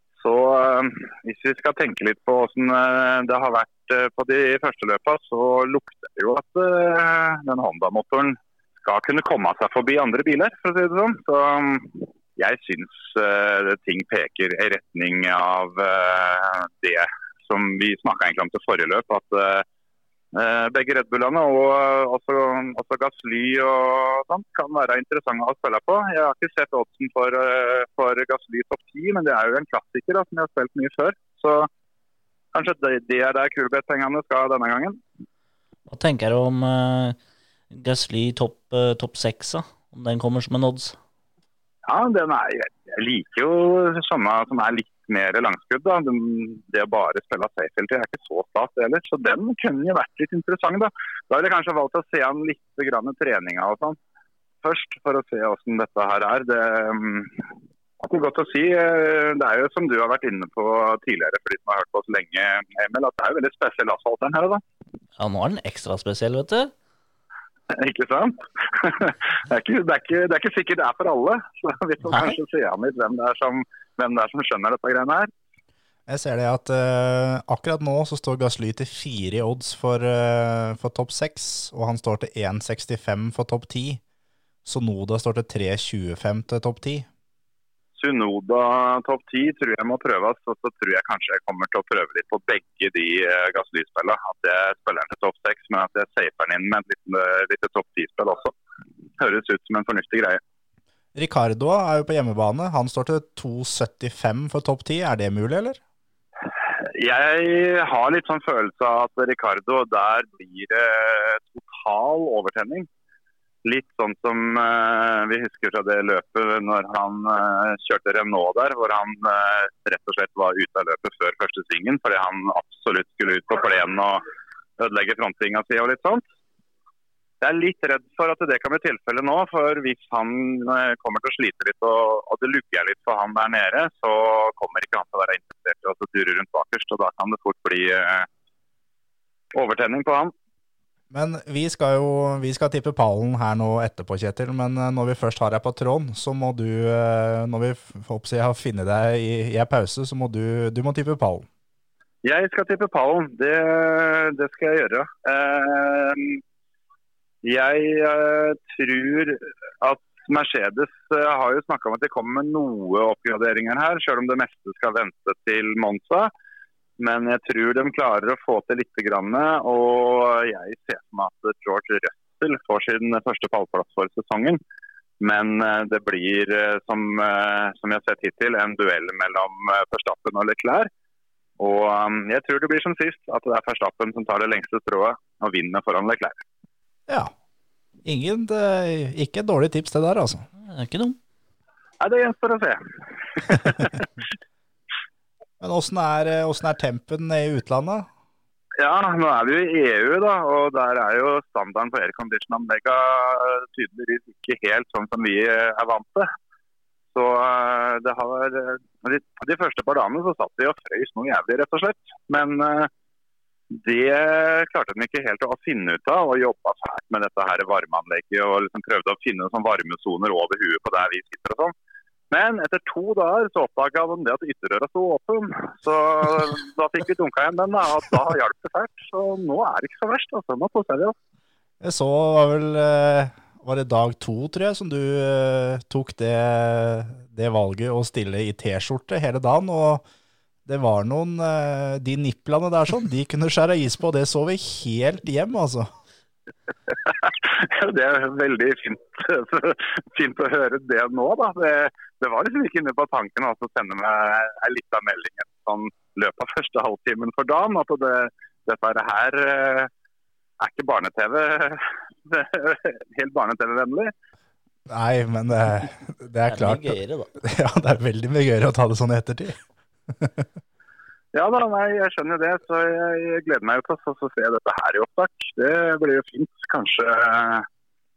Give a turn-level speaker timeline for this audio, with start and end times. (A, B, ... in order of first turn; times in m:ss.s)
0:00.2-0:19.6 A
0:20.3-0:31.7 A
0:32.5-0:35.0 A
0:35.9-0:37.2 B
0:37.7-0:41.0 B
0:41.8-0:54.0 A
0:54.6-0:57.4 A
0:58.0-1:04.6 A
1:05.2-1:06.7 B
1:07.7-1:15.3 A
1:16.1-1:24.0 C
1:24.6-1:27.1 C
1:28.0-1:38.5 A
1:39.2-1:40.4 A
1:41.1-1:45.8 C
1:46.8-1:52.9 A
1:53.6-2:04.2 A
2:04.8-2:06.2 A
2:07.4-2:18.3 A
2:19.5-2:20.3 A
2:21.1-2:31.4 C
2:32.2-2:36.4 A
2:37.4-2:46.3 A
2:47.0-2:54.6 A
2:55.2-3:00.9 A
3:01.6-3:06.4 A
3:08.0-3:10.5 C
3:10.6-3:11.2 B
3:12.0-3:14.0 A
3:15.6-3:18.1 C
3:18.8-3:26.3 A
3:27.1-3:32.9 A
3:33.7-3:41.7 A
3:42.3-3:51.1 A
3:51.8-4:00.0 C
4:00.6-4:05.9 C
4:07.0-4:19.9 A
4:20.6-4:24.1 A
4:24.9-4:29.6 C
4:26.5-4:27.3 B
4:30.1-4:30.5 C
4:31.3-4:37.7 A